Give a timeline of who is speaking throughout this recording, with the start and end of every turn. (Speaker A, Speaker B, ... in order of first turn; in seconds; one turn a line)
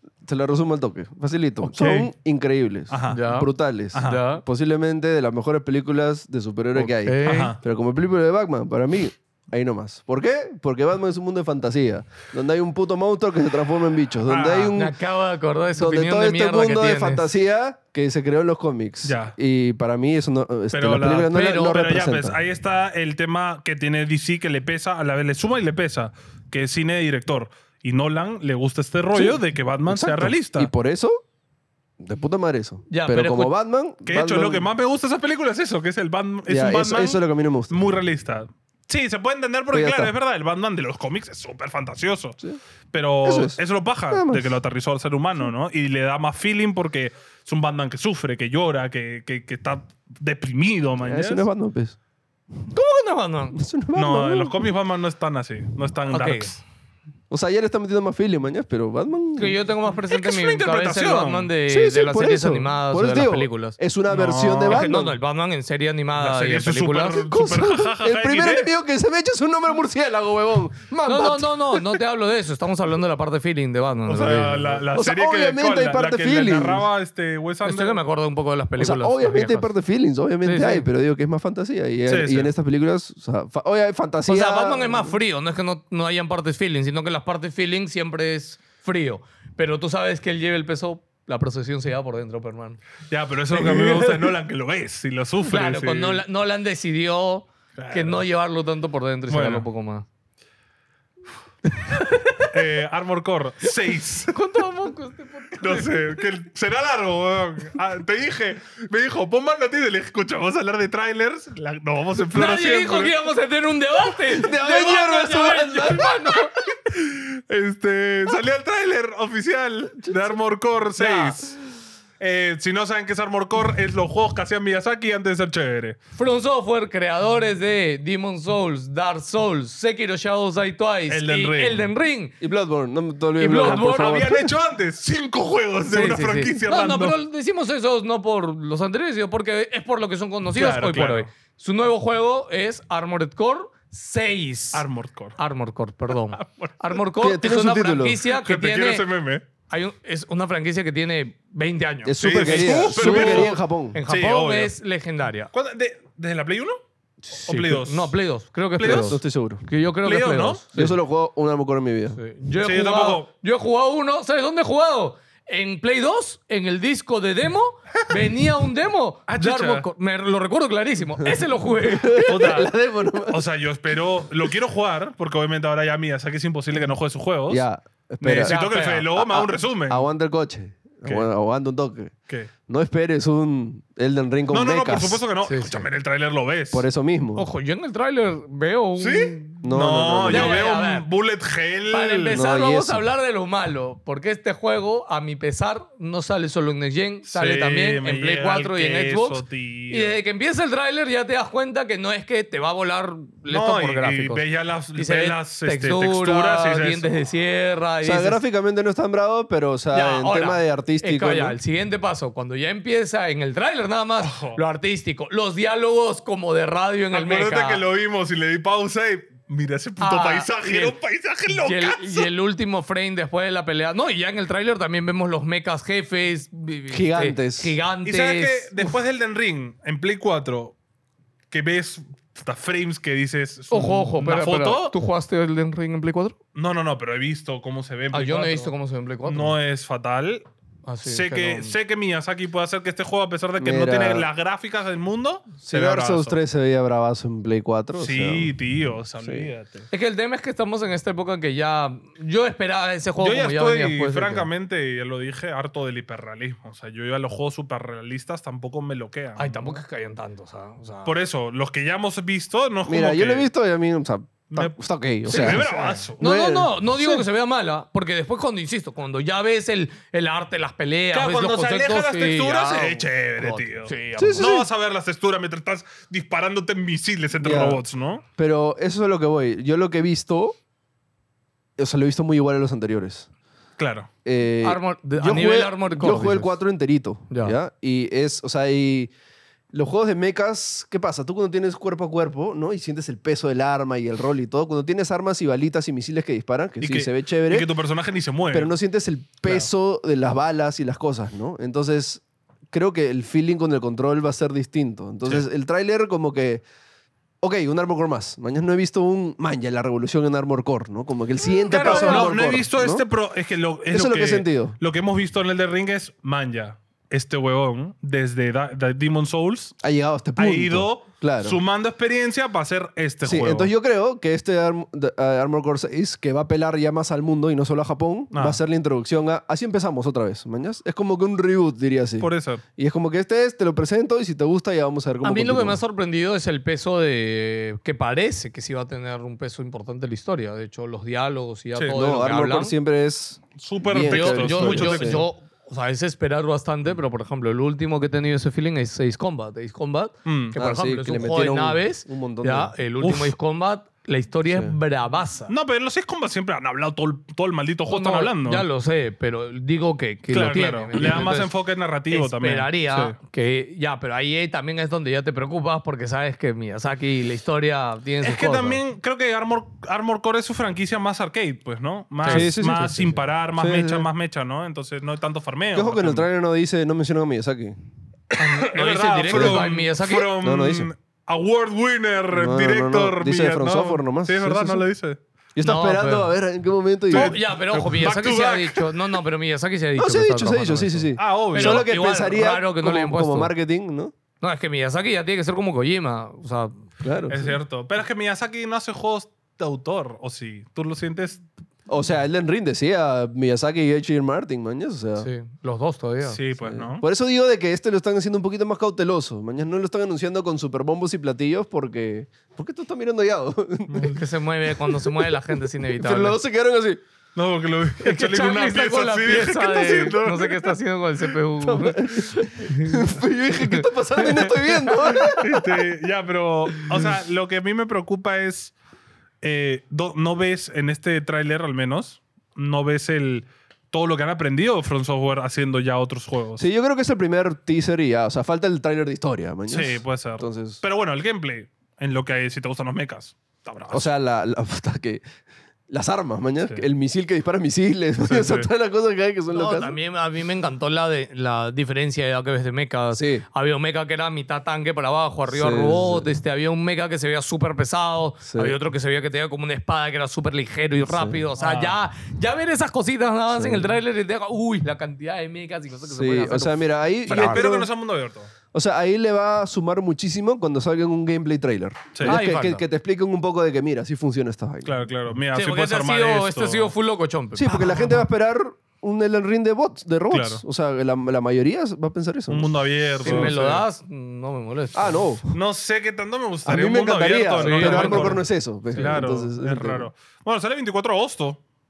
Speaker A: 0.2-14.9
Speaker B: 1.7-2.1
Speaker B: 2.9-3.2
Speaker C: 3.1-3.5
Speaker B: 3.9-4.2
Speaker C: 4.0-4.4
Speaker C: 6.7-7.5
Speaker B: 7.2-7.6
Speaker B: 14.2-14.7
Speaker C: 14.7-17.3
Speaker A: 15.8-22.4
Speaker B: 19.0-19.3
Speaker B: 20.7-30.7
Speaker C: 21.3-21.8
Speaker A: 29.1-31.2
Speaker A: 32.0-34.6
Speaker C: 32.9-33.5
Speaker B: 34.0-42.4
Speaker A: 36.5-37.8
Speaker A: 39.7-40.1
Speaker B: 42.9-51.5
Speaker A: 43.2-44.5
Speaker A: 51.0-52.0
Speaker C: 52.7-53.6
Speaker A: 53.5-54.5
Speaker B: 53.9-56.6
Speaker C: 56.1-56.6
Speaker A: 57.3-59.6
Speaker C: 59.4-63.8
Speaker B: 60.1-61.5
Speaker A: 61.7-65.2
Speaker B: 64.1-64.9
Speaker C: 64.7-67.2
Speaker B: 66.2-68.7
Speaker A: 67.2-71.9
Speaker C: 71.0-74.8
Speaker B: 74.1-78.0
Speaker A: 74.9-76.9
Speaker C: 77.6-79.7
Speaker A: 78.8-85.2
Speaker C: 80.4-80.8
Speaker B: 82.1-82.5
Speaker C: 84.2-92.8
Speaker B: 93.1-96.2
Speaker C: 93.5-94.3
Speaker C: 95.4-100.0
Speaker B: 97.8-98.2
Speaker B: 99.3-99.7
Speaker C: 101.7-102.5
Speaker B: 102.5-104.4
Speaker C: 104.3-106.3
Speaker B: 105.6-113.1
Speaker C: 112.3-116.5
Speaker A: 114.3-116.4
Speaker B: 116.8-121.5
Speaker C: 121.0-121.3
Speaker B: 122.2-126.0
Speaker C: 126.2-132.3
Speaker B: 131.1-131.8
Speaker A: 132.4-134.5
Speaker C: 133.4-134.3
Speaker B: 133.6-137.2
Speaker C: 135.9-144.8
Speaker B: 140.5-141.3
Speaker B: 144.7-145.4
Speaker C: 145.4-149.1
Speaker B: 146.2-146.8
Speaker A: 147.2-148.2
Speaker B: 148.3-149.4
Speaker C: 149.7-155.5
Speaker A: 152.0-154.0
Speaker B: 152.2-153.5
Speaker B: 154.1-154.7
Speaker B: 155.5-156.8
Speaker C: 157.3-160.9
Speaker B: 157.4-158.1
Speaker B: 158.8-159.2
Speaker A: 158.8-159.6
Speaker B: 160.0-160.6
Speaker A: 160.7-162.2
Speaker C: 162.2-172.6
Speaker B: 162.6-163.3
Speaker B: 169.3-169.9
Speaker A: 171.2-173.4
Speaker B: 172.2-172.7
Speaker B: 173.3-177.6
Speaker A: 177.5-178.6
Speaker B: 178.2-180.0
Speaker C: 178.4-179.1
Speaker A: 179.2-182.1
Speaker A: 182.7-185.2
Speaker B: 184.5-186.8
Speaker C: 185.4-185.9
Speaker A: 186.7-187.4
Speaker C: 187.3-189.6
Speaker B: 189.0-192.4
Speaker A: 189.6-190.6
Speaker C: 190.3-191.1
Speaker C: 191.9-204.4
Speaker A: 192.3-193.0
Speaker B: 197.2-200.2
Speaker B: 203.5-207.2
Speaker C: 204.9-208.4
Speaker A: 208.0-211.6
Speaker C: 209.9-217.8
Speaker B: 214.2-214.6
Speaker B: 217.1-222.3
Speaker C: 220.0-221.0
Speaker C: 221.5-228.9
Speaker A: 226.9-227.7
Speaker B: 228.0-230.8
Speaker B: 231.5-234.9
Speaker C: 233.7-236.4
Speaker B: 236.5-238.7
Speaker C: 238.1-239.6
Speaker B: 239.2-240.5
Speaker C: 240.8-241.7
Speaker B: 241.0-246.4
Speaker A: 243.6-244.3
Speaker A: 245.6-248.5
Speaker B: 247.9-249.9
Speaker A: 249.2-249.5
Speaker C: 249.9-254.5
Speaker B: 253.2-259.8
Speaker C: 259.4-261.1
Speaker B: 261.0-263.5
Speaker A: 262.9-265.7
Speaker B: 264.5-266.2
Speaker C: 265.3-274.5
Speaker A: 266.2-267.2
Speaker B: 271.1-278.2
Speaker A: 274.2-274.7
Speaker A: 277.4-277.8
Speaker A: 278.4-280.6
Speaker A: 281.8-283.3
Speaker B: 283.8-284.1
Speaker A: 284.2-289.1
Speaker C: 284.6-286.6
Speaker C: 287.3-287.5
Speaker A: 289.7-297.7
Speaker B: 296.8-298.7
Speaker A: 298.5-306.6
Speaker A: 307.4-313.0
Speaker C: 311.7-312.5
Speaker B: 311.7-319.8
Speaker A: 313.9-314.8
Speaker A: 319.8-321.6
Speaker B: 320.4-323.7
Speaker A: 323.2-335.8
Speaker B: 328.3-328.6
Speaker B: 332.2-332.6
Speaker C: 335.2-342.7
Speaker A: 341.9-345.2
Speaker B: 343.6-345.2
Speaker C: 344.0-355.5
Speaker B: 350.2-350.6
Speaker A: 350.5-352.7
Speaker B: 353.0-353.3
Speaker A: 354.5-354.7
Speaker B: 355.5-358.6
Speaker C: 357.9-361.5
Speaker B: 360.3-363.2
Speaker C: 362.1-368.8
Speaker B: 368.2-376.3
Speaker A: 372.3-374.1
Speaker A: 375.7-377.8
Speaker B: 378.3-385.2
Speaker C: 378.4-380.3
Speaker A: 379.3-379.7
Speaker A: 380.4-380.9
Speaker A: 382.3-384.9
Speaker A: 385.5-387.4
Speaker C: 385.6-386.3
Speaker C: 387.1-393.5
Speaker B: 387.1-389.0
Speaker A: 390.0-394.1
Speaker B: 391.2-391.9
Speaker C: 394.4-396.9
Speaker A: 397.0-397.5
Speaker B: 397.3-401.4
Speaker A: 401.9-405.3
Speaker C: 405.2-406.4
Speaker B: 406.2-407.0
Speaker A: 406.6-414.2
Speaker B: 413.9-414.2
Speaker C: 414.1-416.4
Speaker A: 414.8-417.0
Speaker B: 417.3-420.8
Speaker C: 418.0-425.0
Speaker A: 421.6-425.7
Speaker B: 425.1-428.7
Speaker B: 429.4-436.7
Speaker A: 436.6-440.8
Speaker B: 439.7-444.1
Speaker A: 443.9-445.2
Speaker A: 445.9-450.0
Speaker B: 448.2-448.7
Speaker C: 449.5-467.6
Speaker A: 453.1-453.4
Speaker A: 455.5-456.3
Speaker A: 458.5-458.8
Speaker A: 461.0-461.4
Speaker B: 461.6-462.0
Speaker A: 463.5-463.9
Speaker A: 466.1-467.9
Speaker B: 467.3-468.5
Speaker A: 468.7-475.1
Speaker B: 472.1-472.4
Speaker C: 472.2-472.8
Speaker B: 474.8-476.9
Speaker C: 475.5-478.3
Speaker A: 477.5-483.5
Speaker B: 480.3-480.6
Speaker B: 482.5-483.8
Speaker C: 483.2-485.2
Speaker A: 484.9-485.5
Speaker B: 485.5-491.6
Speaker A: 486.6-490.1
Speaker C: 487.6-488.4